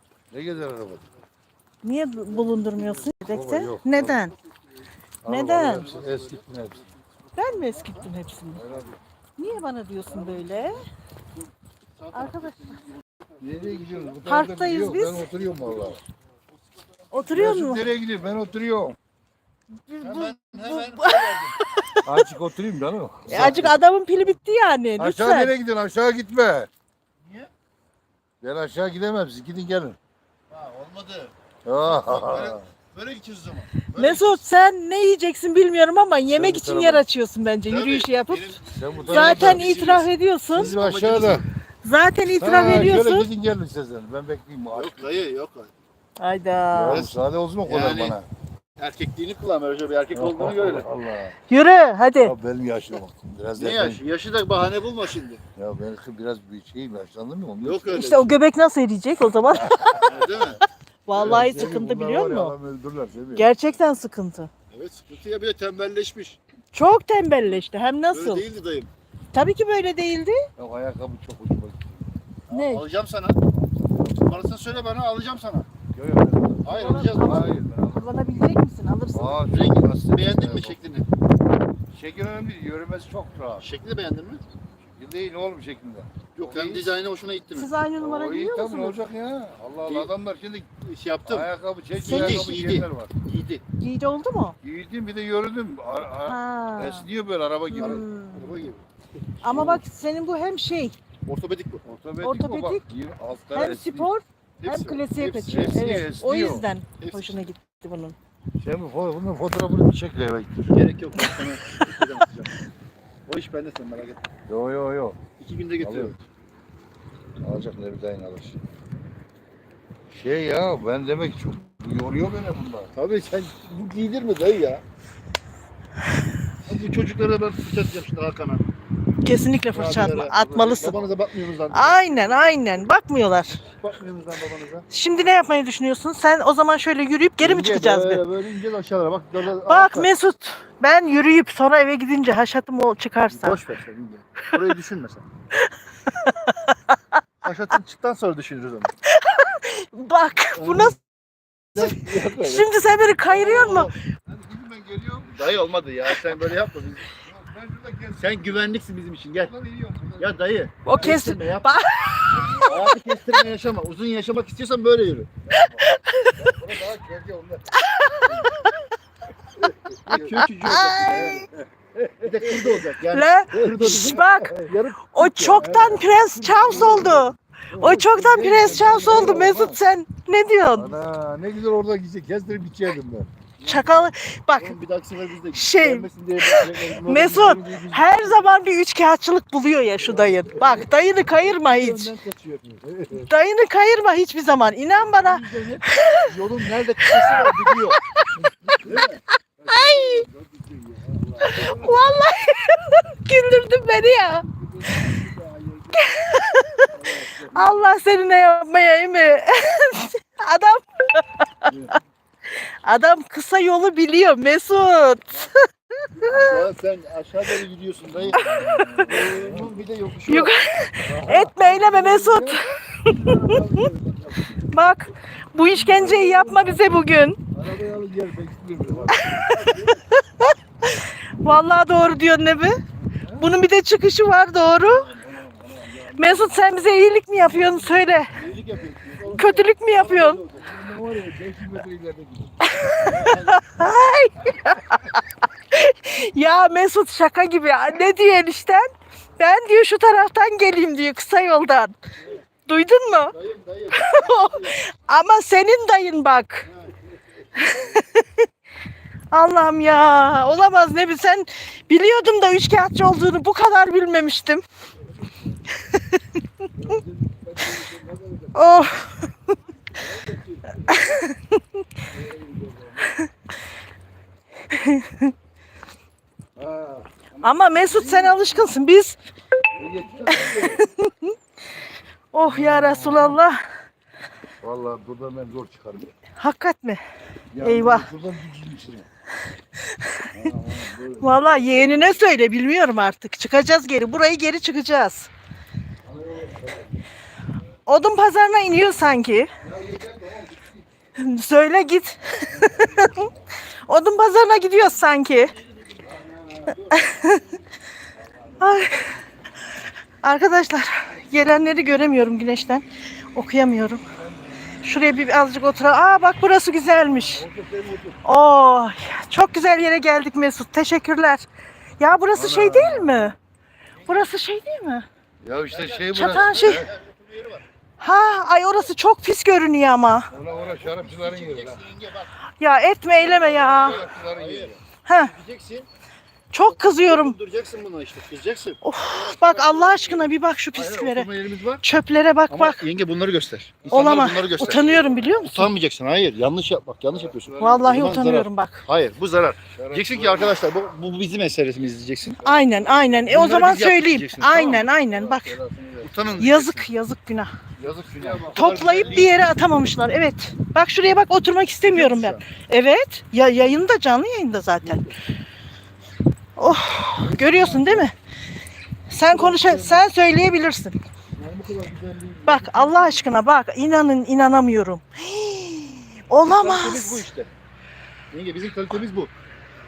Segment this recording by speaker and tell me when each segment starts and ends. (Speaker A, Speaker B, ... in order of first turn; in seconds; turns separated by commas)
Speaker A: 0.3-1.0, Speaker B: 1.8-4.3, Speaker A: 2.8-4.2, Speaker A: 5.2-6.9, Speaker B: 5.2-5.9, Speaker C: 5.5-8.1, Speaker B: 7.3-8.6, Speaker A: 8.5-9.0, Speaker B: 9.4-10.8, Speaker C: 10.1-10.7, Speaker C: 11.9-14.2, Speaker B: 12.1-12.8, Speaker A: 13.4-16.0, Speaker B: 14.2-15.2, Speaker B: 17.1-17.9, Speaker A: 17.3-19.0, Speaker B: 19.9-22.2, Speaker C: 20.0-21.5, Speaker A: 22.0-23.7, Speaker B: 23.3-25.5, Speaker A: 25.0-26.7, Speaker C: 27.2-27.5, Speaker A: 28.4-30.0, Speaker C: 30.5-31.3, Speaker A: 31.6-32.6, Speaker C: 32.0-34.4, Speaker B: 33.9-38.6, Speaker A: 36.3-37.0, Speaker C: 37.7-41.5, Speaker A: 38.7-39.8, Speaker B: 39.1-40.7, Speaker A: 40.5-41.4, Speaker B: 41.8-43.3, Speaker A: 42.3-45.2, Speaker C: 44.7-45.7, Speaker B: 46.2-47.1, Speaker A: 46.7-48.2, Speaker C: 46.9-47.1, Speaker C: 47.6-48.2, Speaker C: 48.8-50.9, Speaker A: 50.1-51.3, Speaker B: 51.5-52.3, Speaker A: 52.2-54.0, Speaker C: 53.6-55.4, Speaker A: 55.5-58.0, Speaker C: 57.6-58.3, Speaker B: 57.9-60.1, Speaker A: 59.6-60.5, Speaker C: 60.0-60.6, Speaker B: 61.1-62.5, Speaker C: 61.1-61.7, Speaker A: 61.1-63.5, Speaker B: 63.3-64.5, Speaker C: 64.7-66.4, Speaker B: 66.7-68.5, Speaker C: 67.5-68.9, Speaker B: 69.3-70.5, Speaker A: 70.6-72.2, Speaker C: 72.5-73.4, Speaker B: 72.5-72.8, Speaker A: 73.5-74.4, Speaker C: 74.2-75.7, Speaker A: 75.9-78.3, Speaker C: 76.6-77.5, Speaker B: 76.7-79.4, Speaker A: 79.1-80.8, Speaker C: 79.5-81.1, Speaker A: 81.9-83.6, Speaker C: 83.6-84.4, Speaker A: 84.8-86.9, Speaker C: 86.4-87.7, Speaker B: 87.5-89.0, Speaker A: 88.0-90.7, Speaker C: 89.8-90.1, Speaker C: 90.8-91.5, Speaker A: 91.2-93.1, Speaker C: 92.0-93.6, Speaker B: 92.0-92.6, Speaker B: 93.8-94.6, Speaker A: 94.6-98.0, Speaker B: 96.2-97.0, Speaker B: 97.7-98.5, Speaker C: 97.8-98.8, Speaker B: 99.4-100.9, Speaker C: 99.5-99.8, Speaker A: 99.5-99.7, Speaker C: 101.2-101.8, Speaker A: 101.8-104.1, Speaker B: 102.2-102.8, Speaker B: 103.5-108.2, Speaker C: 104.6-106.0, Speaker A: 105.5-106.7, Speaker C: 107.0-107.5, Speaker A: 108.6-110.7, Speaker C: 110.7-112.7, Speaker C: 113.3-114.2, Speaker A: 114.5-115.2, Speaker C: 115.4-116.2, Speaker A: 115.8-116.1, Speaker A: 117.4-118.6, Speaker A: 120.1-122.9, Speaker C: 122.9-124.8, Speaker C: 126.6-128.7, Speaker B: 129.2-131.0, Speaker C: 129.7-132.6, Speaker B: 131.7-133.6, Speaker C: 133.6-134.8, Speaker B: 134.9-138.2, Speaker C: 137.4-140.1, Speaker B: 139.6-143.6, Speaker C: 143.3-145.2, Speaker B: 145.6-147.0, Speaker C: 147.4-148.9, Speaker B: 149.1-150.9, Speaker C: 150.5-151.0, Speaker C: 151.7-152.5, Speaker B: 151.8-153.9, Speaker A: 151.8-152.7, Speaker C: 153.2-153.9, Speaker A: 154.2-155.4, Speaker C: 155.3-157.1, Speaker A: 157.1-158.7, Speaker C: 158.2-159.5, Speaker A: 159.4-160.4, Speaker C: 160.2-161.7, Speaker B: 160.8-162.9, Speaker A: 162.2-162.8, Speaker C: 162.6-165.3, Speaker A: 165.5-168.5, Speaker B: 165.5-166.4, Speaker B: 167.7-168.8, Speaker A: 169.5-170.4, Speaker B: 170.1-171.5, Speaker C: 170.1-171.4, Speaker A: 171.0-172.8, Speaker C: 172.2-177.3, Speaker B: 173.1-180.9, Speaker A: 173.6-174.7, Speaker A: 175.6-177.1, Speaker A: 177.7-179.8, Speaker C: 178.4-179.6, Speaker A: 180.8-183.3, Speaker C: 183.6-188.0, Speaker B: 183.6-184.8, Speaker B: 185.5-192.1, Speaker A: 187.4-188.1, Speaker C: 190.0-192.8, Speaker A: 192.8-193.2, Speaker B: 193.1-196.3, Speaker C: 194.9-198.0, Speaker B: 197.0-198.3, Speaker A: 198.4-202.1, Speaker C: 198.7-199.2, Speaker B: 199.7-200.2, Speaker B: 201.4-204.4, Speaker A: 204.5-206.0, Speaker B: 206.0-206.9, Speaker C: 206.9-207.6, Speaker A: 207.0-207.8, Speaker B: 207.5-211.7, Speaker A: 211.7-211.9, Speaker B: 212.8-216.6, Speaker C: 216.2-220.5, Speaker A: 218.2-219.8, Speaker B: 218.3-219.1, Speaker B: 220.3-223.9, Speaker A: 221.0-224.7, Speaker B: 224.7-227.4, Speaker A: 225.7-227.0, Speaker A: 227.5-229.3, Speaker C: 228.8-230.0, Speaker B: 229.1-232.8, Speaker A: 233.1-233.5, Speaker B: 233.4-235.1, Speaker C: 234.8-235.2, Speaker A: 235.2-238.8, Speaker B: 236.1-238.3, Speaker C: 238.3-240.7, Speaker B: 239.3-240.4, Speaker A: 240.6-242.6, Speaker B: 242.6-251.9, Speaker C: 243.0-243.8, Speaker B: 252.7-253.3, Speaker C: 253.3-254.8, Speaker B: 253.9-256.6, Speaker C: 256.6-257.0, Speaker C: 257.6-258.0, Speaker B: 257.6-258.4, Speaker B: 259.3-264.6, Speaker A: 265.2-265.5, Speaker A: 266.7-268.9, Speaker B: 268.5-269.3, Speaker A: 269.9-271.0, Speaker B: 270.9-271.6, Speaker A: 272.1-273.1, Speaker B: 274.7-275.3, Speaker A: 276.6-278.7, Speaker B: 277.4-279.2, Speaker A: 279.8-280.8, Speaker B: 280.3-281.3, Speaker B: 282.3-283.6, Speaker A: 282.4-283.4, Speaker A: 284.6-286.1, Speaker B: 286.4-287.0, Speaker A: 287.5-289.1, Speaker B: 287.6-288.1, Speaker B: 290.0-290.3, Speaker A: 290.3-292.2, Speaker B: 291.2-295.3, Speaker A: 296.0-296.9, Speaker B: 297.9-299.5, Speaker A: 299.6-300.8, Speaker B: 301.2-303.3, Speaker A: 302.6-303.4, Speaker B: 303.9-305.5, Speaker A: 306.2-306.9, Speaker B: 306.9-307.4, Speaker A: 308.4-308.9, Speaker B: 308.6-309.2, Speaker B: 310.2-312.8, Speaker B: 313.3-314.0, Speaker A: 314.1-314.8, Speaker B: 314.8-317.4, Speaker A: 317.1-318.2, Speaker B: 318.2-321.4, Speaker B: 322.0-323.4, Speaker A: 322.3-323.3, Speaker C: 324.0-324.3, Speaker B: 324.1-325.1, Speaker A: 325.4-326.9, Speaker C: 325.7-327.6, Speaker B: 326.1-326.9, Speaker B: 328.0-330.3, Speaker A: 330.3-331.8, Speaker C: 330.5-332.3, Speaker B: 332.6-334.0, Speaker A: 333.1-334.8, Speaker C: 333.7-335.9, Speaker B: 335.0-335.3, Speaker B: 336.5-337.4, Speaker C: 336.7-341.8, Speaker B: 338.8-341.3, Speaker B: 341.8-342.8, Speaker C: 342.5-352.4, Speaker A: 343.8-345.4, Speaker B: 343.9-345.7, Speaker A: 347.1-348.1, Speaker B: 347.6-348.8, Speaker A: 349.8-350.6, Speaker A: 352.4-353.4, Speaker B: 352.4-355.6, Speaker C: 353.3-354.9, Speaker A: 354.6-356.5, Speaker C: 356.0-356.9, Speaker B: 356.4-357.5, Speaker C: 357.8-359.4, Speaker A: 357.8-359.3, Speaker B: 358.5-365.0, Speaker C: 361.8-362.4, Speaker C: 364.8-365.1, Speaker B: 366.6-368.1, Speaker C: 367.2-368.0, Speaker A: 367.5-368.0, Speaker B: 369.1-370.9, Speaker C: 369.2-370.1, Speaker C: 371.4-373.1, Speaker B: 372.4-377.2, Speaker C: 376.4-377.5, Speaker C: 378.3-379.3